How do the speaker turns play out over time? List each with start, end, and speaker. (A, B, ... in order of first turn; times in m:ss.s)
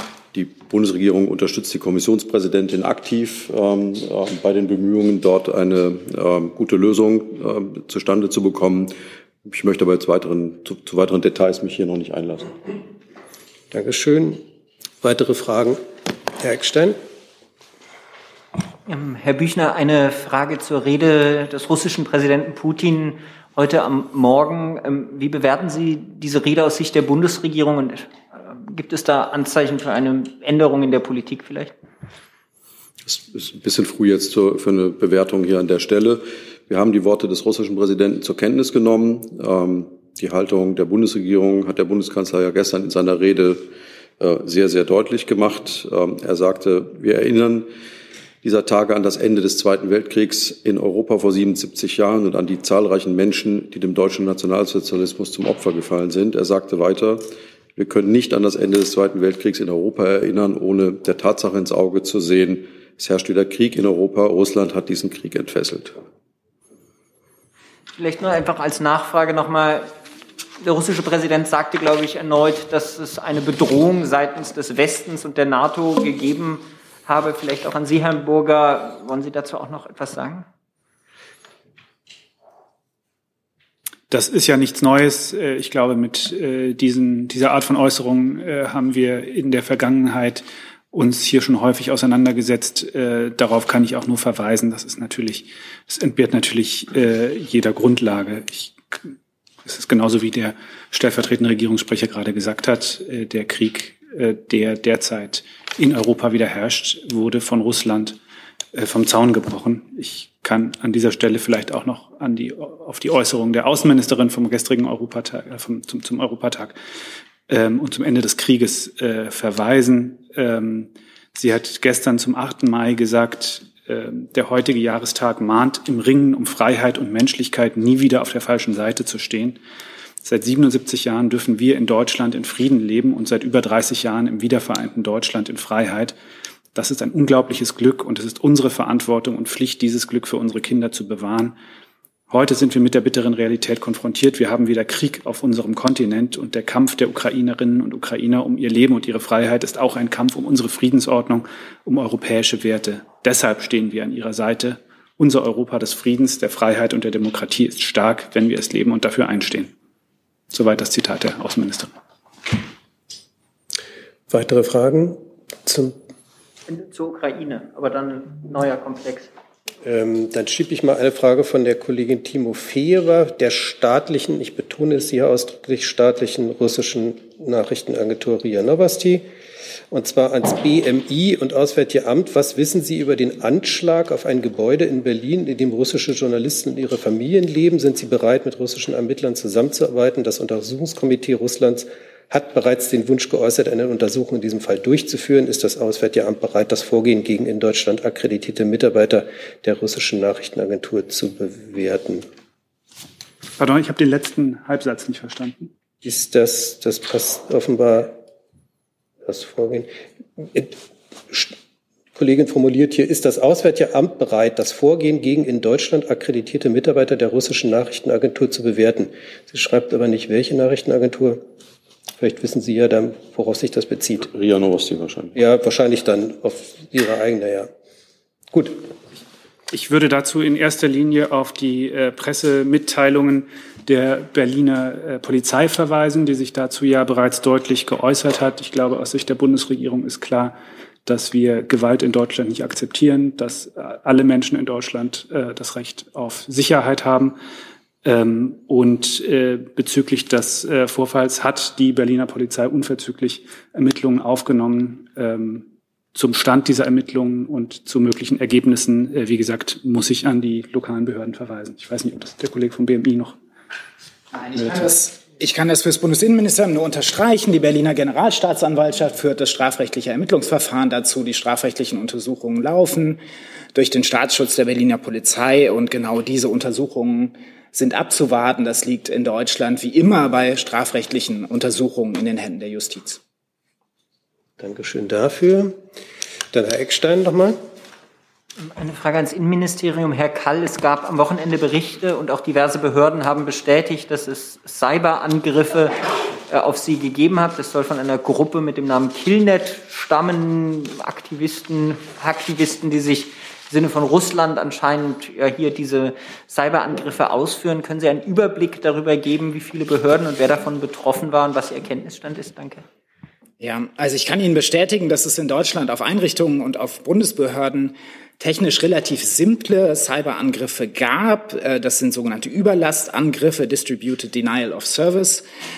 0:00.3-0:12.7 A
0:13.7-0:14.4 B
0:15.0-0:15.8 B
0:16.4-0:17.0 B
0:18.8-0:31.7 C
0:33.0-0:47.7 A
0:48.4-1:06.0 A
1:08.0-1:09.9 C
1:10.6-1:20.4 C
1:24.1-1:39.0 D
1:39.6-1:48.2 D
1:48.7-1:56.8 D
1:57.5-2:09.6 D
2:10.2-2:16.2 D
2:16.7-2:21.6 D
2:22.3-2:39.7 D
2:40.5-2:41.9 D
2:44.3-2:46.0 B
2:46.7-2:49.3 C
2:49.8-2:59.3 B
2:59.9-3:22.2 B
3:23.6-3:25.7 D
3:26.0-3:28.2 B
3:29.2-3:30.8 B
3:32.2-3:41.4 B
3:42.2-3:44.3 B
3:44.2-3:45.4 A
3:45.3-3:47.7 B
3:48.5-3:48.8 B
3:49.7-4:07.4 D
4:08.0-4:23.4 D
4:24.4-4:33.2 E
4:33.7-4:43.2 E
4:44.6-4:45.8 B
4:46.5-4:47.6 B
4:48.6-5:12.8 C
5:13.6-5:25.4 E